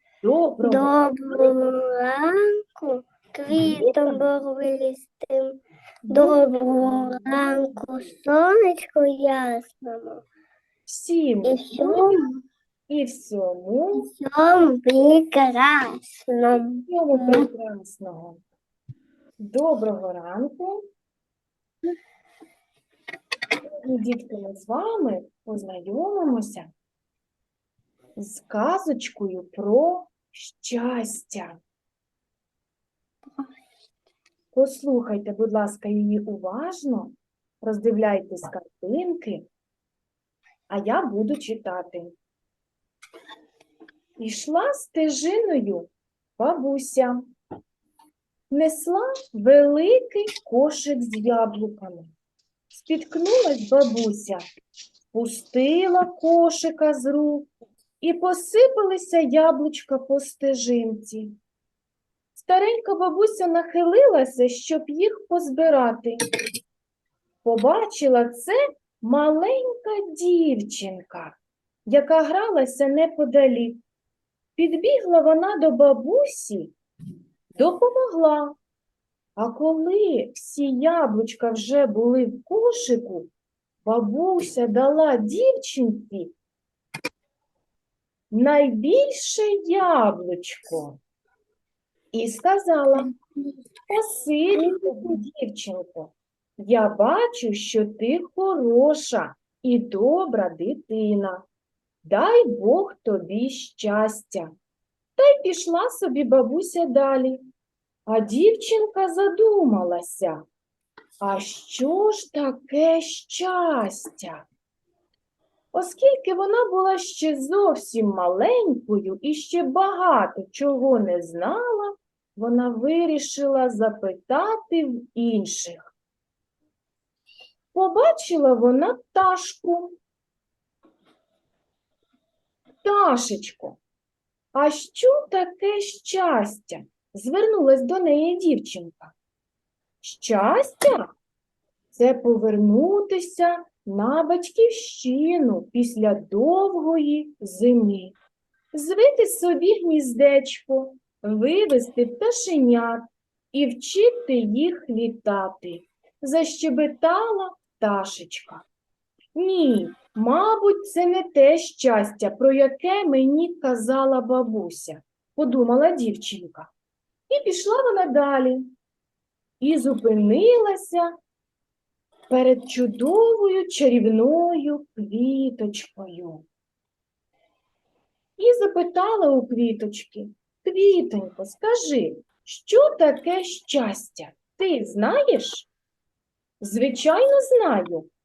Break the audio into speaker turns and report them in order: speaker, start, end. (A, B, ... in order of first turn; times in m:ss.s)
0:00.2-0:01.1 A
0:00.6-0:10.2 B
0:03.5-0:04.2 A
0:06.1-0:07.8 A
0:10.9-0:12.1 A
0:11.4-0:12.3 B
0:12.9-0:14.1 A
0:13.9-0:17.4 B
0:16.5-0:18.4 A
0:19.4-0:20.8 A
0:23.8-0:26.7 A
0:28.2-0:31.6 A
0:34.5-0:39.4 A
0:40.7-0:42.1 A
0:44.2-0:47.3 A
0:48.5-0:52.1 A
0:52.7-0:54.4 A
0:55.1-0:57.5 A
0:58.0-1:01.3 A
1:02.3-1:06.2 A
1:07.4-1:11.4 A
1:11.9-1:13.8 A
1:14.6-1:16.7 A
1:17.5-1:18.6 A
1:19.4-1:23.3 A
1:23.8-1:26.3 A
1:28.3-1:31.0 A
1:32.1-1:33.1 A
1:33.9-1:41.4 A
1:34.6-1:35.0 B
1:42.0-1:44.5 A
1:45.2-1:47.4 A
1:48.1-1:50.4 A
1:51.2-1:54.4 A
1:55.7-2:05.9 A
2:07.7-2:10.0 A
2:12.8-2:13.8 A
2:14.5-2:19.1 A
2:20.0-2:21.1 A
2:21.9-2:28.1 A
2:28.7-2:38.6 A
2:39.3-2:46.7 A
2:47.3-2:48.7 A
2:49.6-2:51.1 A
2:52.3-2:56.4 A
2:58.4-3:05.7 A
3:06.6-3:08.1 A